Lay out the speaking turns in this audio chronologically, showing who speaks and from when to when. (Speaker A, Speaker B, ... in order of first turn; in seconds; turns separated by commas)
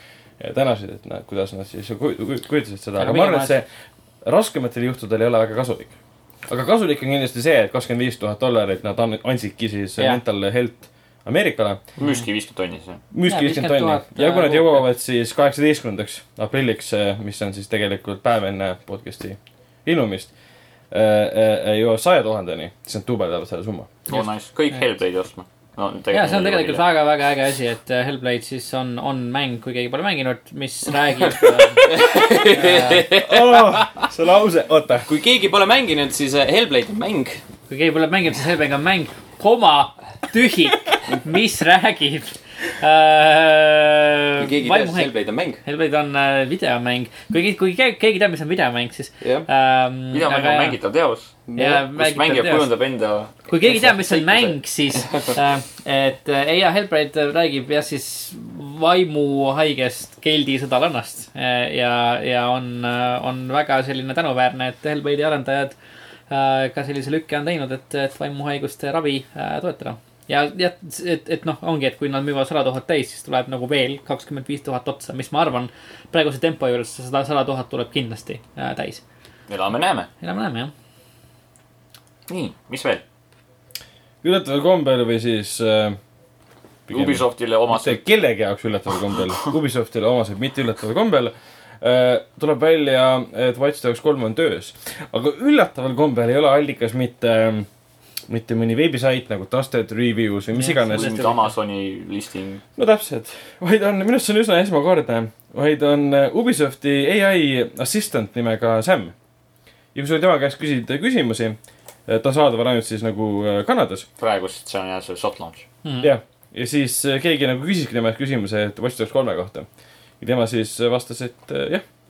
Speaker A: 0.4-3.7, Speaker B: 3.0-3.5, Speaker A: 4.2-5.9, Speaker A: 6.5-11.9, Speaker C: 12.0-13.0, Speaker A: 13.1-20.3, Speaker B: 13.2-14.9, Speaker A: 20.9-23.9, Speaker C: 24.1-26.9, Speaker B: 26.1-33.1, Speaker D: 31.8-33.9, Speaker A: 33.2-35.1, Speaker D: 35.1-37.4, Speaker B: 37.7-50.8, Speaker D: 44.4-45.6, Speaker D: 49.2-49.5, Speaker C: 50.1-54.6, Speaker D: 51.5-51.8, Speaker B: 51.6-52.7, Speaker B: 53.5-65.8, Speaker B: 66.3-79.0, Speaker C: 79.5-80.1, Speaker B: 80.2-80.7, Speaker C: 82.3-83.0, Speaker A: 84.2-86.0, Speaker C: 86.9-88.0, Speaker A: 86.9-97.7, Speaker A: 98.3-101.2, Speaker B: 100.5-101.5, Speaker C: 100.9-102.6, Speaker A: 102.8-109.1, Speaker A: 109.9-114.1, Speaker C: 114.2-115.7, Speaker B: 115.8-116.1, Speaker A: 116.0-119.7, Speaker A: 120.2-121.8